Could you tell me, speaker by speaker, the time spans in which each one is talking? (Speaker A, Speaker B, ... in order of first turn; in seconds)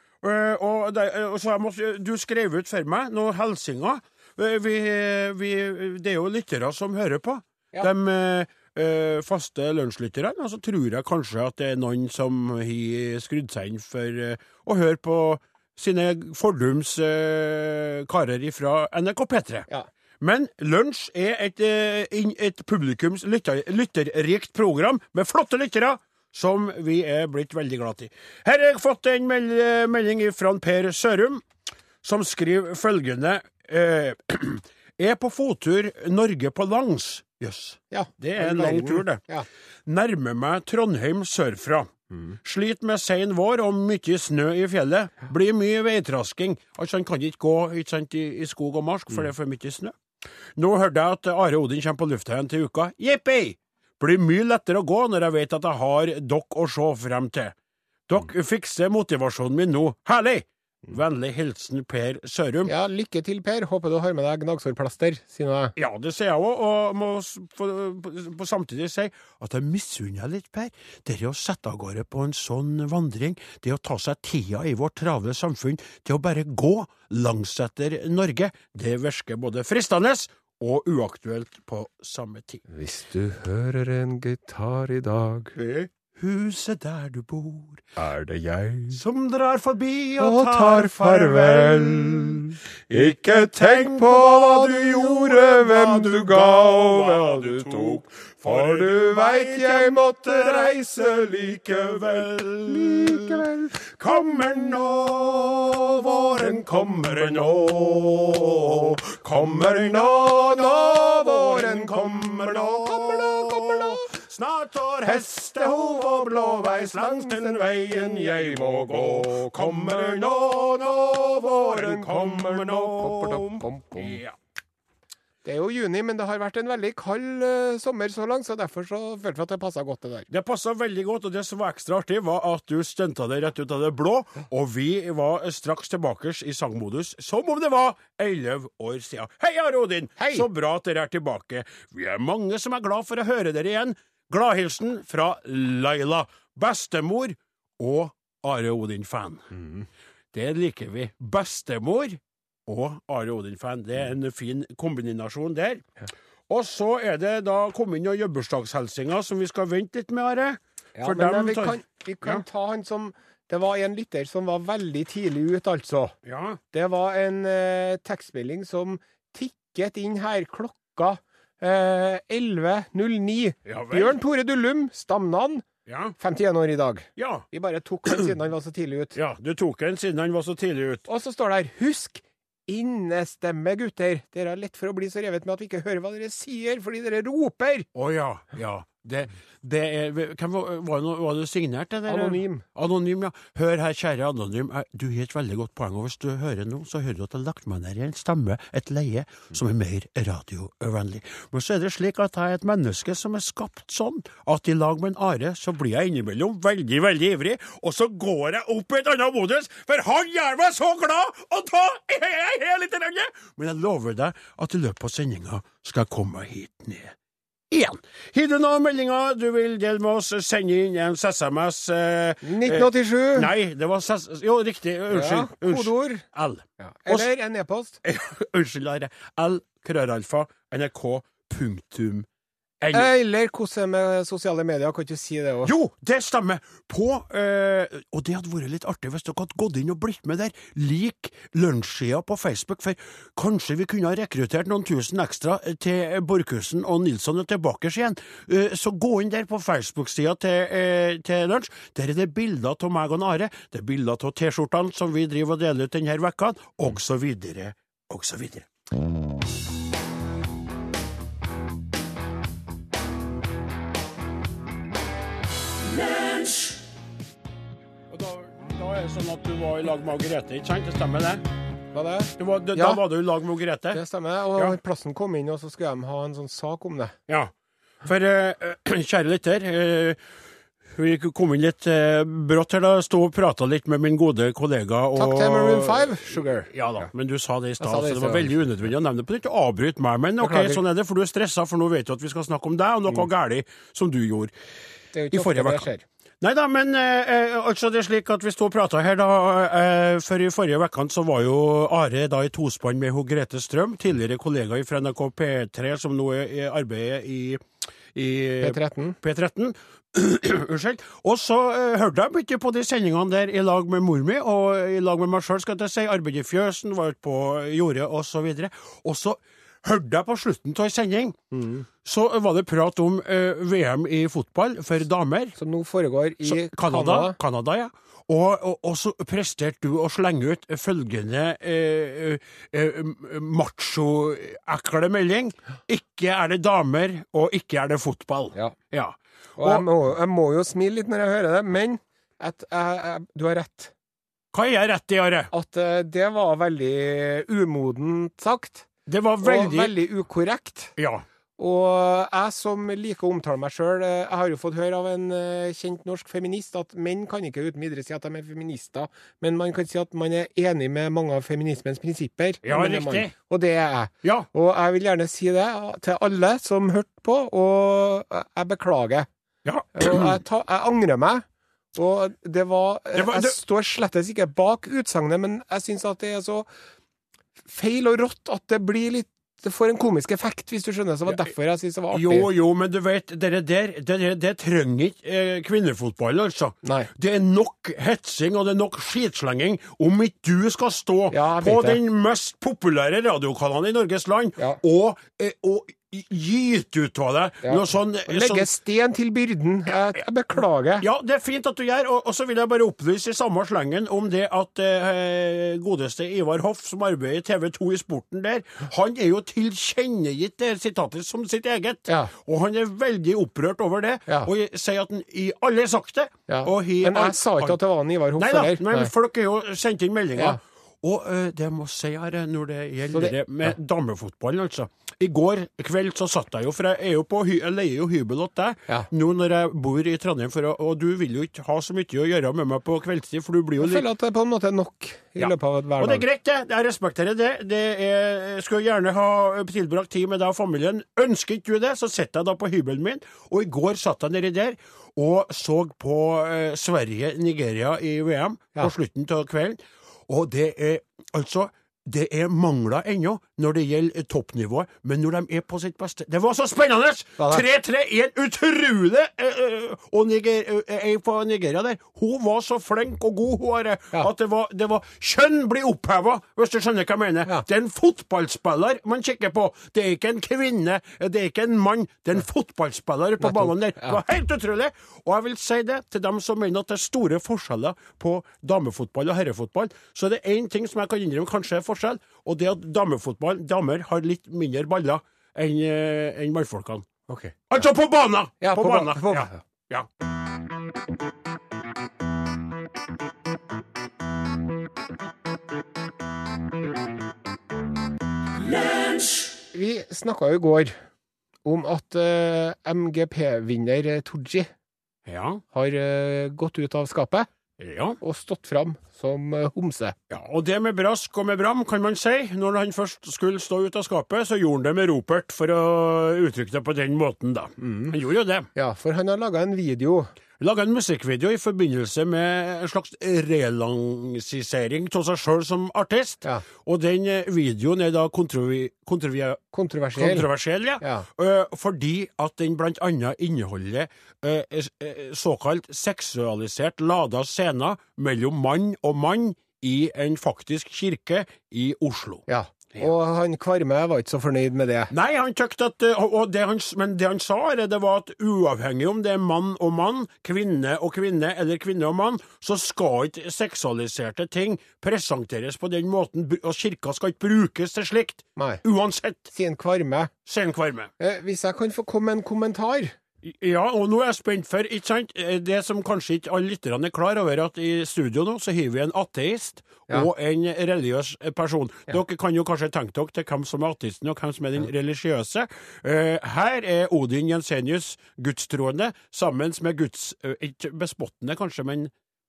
Speaker A: 0.2-19.7, 20.2-31.4, 32.0-39.2, 39.9-41.9, 42.4-50.0, 50.5-57.5, 58.1-62.7, 65.8-82.6, 85.5-87.9, 88.9-124.3, 130.3-149.5, 150.3-155.9, 156.5-162.4, 166.2-166.6, 173.6-174.2, 175.8-176.1, 177.2-177.4, 178.1-178.3, 179.1-181.0, 187.9-217.2, 217.7-227.3, 228.0-232.3, 232.8-233.1, 235.6-258.7, 266.0-266.7, 268.1-271.4, 272.4-274.0, 278.0-280.2, 280.9-294.5, 295.3-295.9, 296.4-307.6, 308.1-321.4, 322.0-325.6, 326.4-339.9, 344.5-345.5, 349.1-349.9, 351.0-351.2, 362.6-363.3, 369.6-370.4, 373.1-373.6, 382.1-398.7, 401.0-417.8, 418.4-434.1, 435.4-487.1, 487.7-490.1, 505.2-505.6, 507.8-508.2, 510.3-518.7, 520.6-529.6, 530.1-542.4, 545.1-559.5, 560.5-561.1, 563.4-582.1
Speaker B: 37.9-39.5, 42.1-42.4, 62.6-65.7, 82.7-85.5, 88.0-89.0, 90.2-103.7, 106.4-114.1, 115.0-124.2, 125.4-130.3, 140.2-140.4, 149.5-149.8, 161.0-166.1, 166.7-175.6, 176.2-179.2, 181.1-187.9, 192.1-192.6, 222.4-223.5, 225.1-226.2, 226.8-228.0, 232.9-235.7, 271.9-273.0, 273.9-277.1, 285.1-286.7, 287.8-288.5, 290.4-290.8, 295.1-296.0, 308.6-309.2, 321.5-321.9, 325.6-327.4, 339.6-343.9, 345.5-348.9, 349.4-350.9, 351.6-369.3, 369.9-371.4, 371.9-376.7, 377.7-382.5, 386.8-387.1, 391.3-392.0, 397.6-401.1, 416.5-419.1, 423.1-423.4, 433.8-436.2, 457.4-457.6, 473.4-474.2, 487.3-487.7, 488.6-489.6, 499.7-501.0, 501.6-504.7, 505.7-507.5, 508.2-510.1, 517.8-518.1, 518.7-520.3, 529.7-530.5, 531.0-531.2, 542.5-545.1, 558.5-558.8, 559.5-560.3, 561.2-563.1